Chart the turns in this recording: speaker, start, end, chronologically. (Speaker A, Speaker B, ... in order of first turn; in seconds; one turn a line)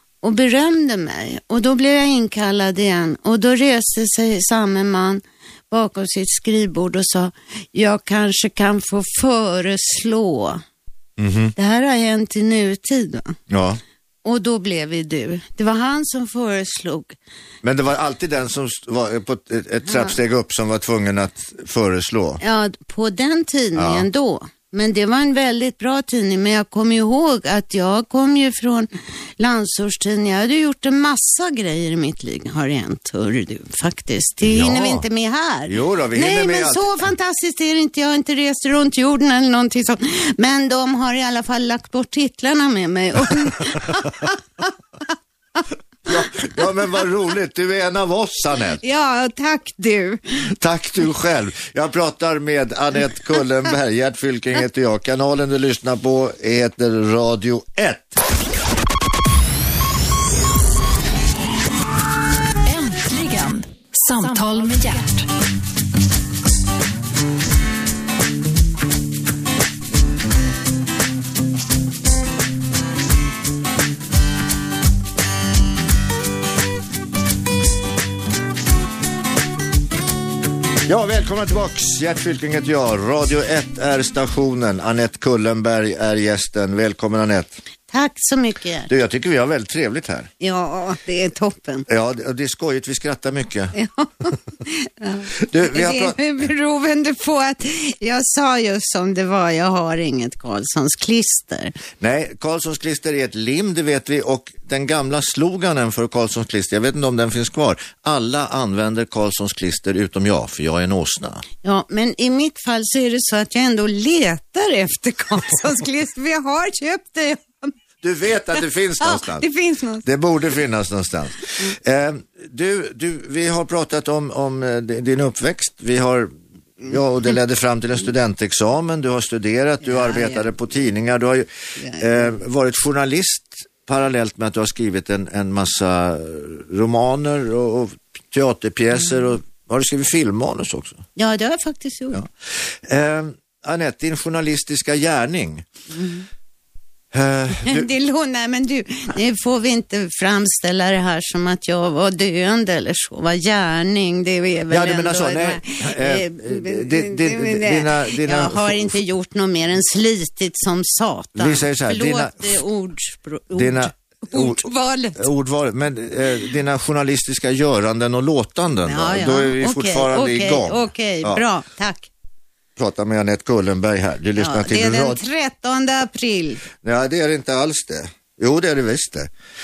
Speaker A: 0.2-10.6
Speaker B: 11.2-11.5
Speaker A: 11.6-13.4
Speaker B: 13.5-13.8
Speaker A: 14.2-17.1
Speaker B: 17.6-22.4
Speaker A: 19.9-20.2
Speaker A: 22.4-44.4
Speaker B: 23.8-24.1
Speaker B: 34.4-35.0
Speaker B: 35.7-36.9
Speaker B: 46.0-48.8
Speaker A: 48.8-50.4
Speaker B: 50.6-58.2
Speaker C: 62.6-65.3
Speaker B: 80.8-87.5
Speaker A: 87.9-88.9
Speaker B: 88.9-90.3
Speaker A: 90.4-91.9
Speaker B: 91.9-93.7
Speaker A: 93.7-101.7
Speaker B: 95.4-96.2
Speaker B: 102.0-111.4
Speaker A: 111.6-117.7
Speaker B: 118.0-119.5
Speaker A: 119.0-120.0
Speaker B: 120.0-141.0
Speaker A: 129.9-130.4
Speaker A: 131.8-132.1
Speaker A: 141.2-142.2
Speaker B: 142.1-145.6
Speaker A: 145.9-146.2
Speaker B: 147.1-147.9
Speaker A: 147.6-165.3
Speaker B: 154.7-158.9
Speaker B: 161.3-162.6
Speaker B: 163.6-171.4
Speaker A: 168.8-172.1
Speaker B: 172.8-175.2
Speaker A: 174.4-176.6
Speaker B: 176.8-179.3